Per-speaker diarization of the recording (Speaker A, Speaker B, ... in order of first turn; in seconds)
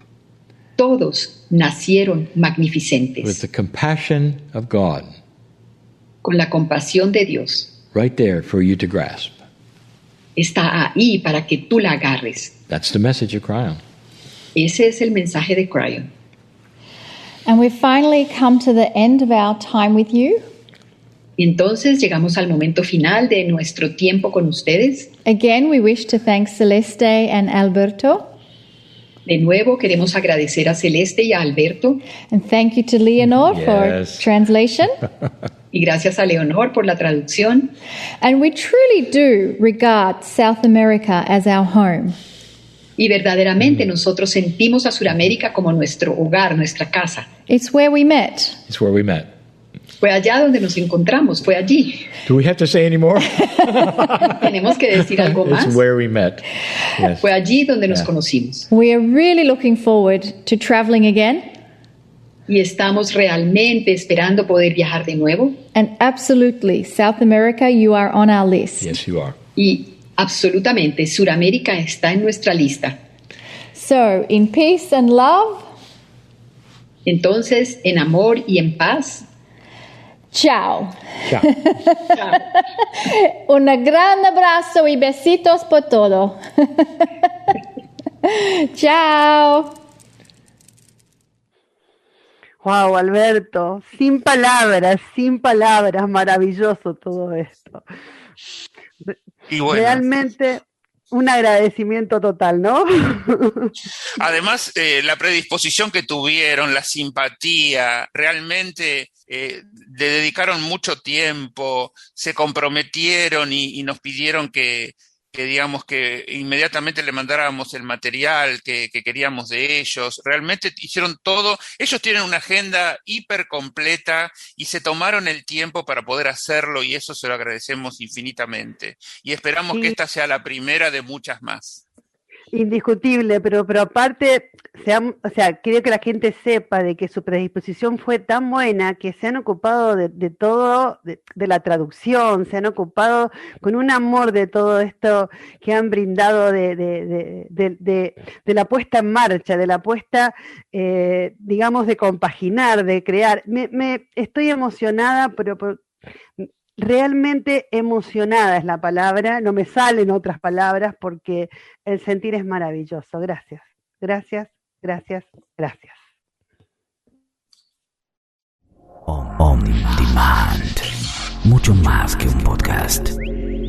Speaker A: 0.8-3.4, 6.2-7.7, 10.4-12.5, 14.6-16.1, 21.4-25.1, 29.3-32.0, 35.7-37.7, 43.0-47.3, 50.0-52.1, 54.3-55.8, 57.2-58.7, 62.5-65.6, 69.6-73.0, 77.1-79.2
Speaker B: 3.2-5.2, 7.9-9.3, 12.7-13.8, 33.5-34.3, 48.7-49.3, 52.2-54.3, 55.2-56.5, 57.0-57.2, 68.8-69.4
Speaker C: 17.5-20.4, 25.2-28.3, 32.3-35.0, 38.2-42.2, 47.5-48.6, 58.7-61.5, 65.8-69.0, 73.7-75.7, 80.3-87.5, 88.2-89.7
Speaker D: 92.6-97.8, 99.7-103.7, 132.5-155.8, 156.8-166.0
Speaker E: 99.5-100.1, 104.2-131.8
Speaker F: 169.1-170.9, 171.4-173.2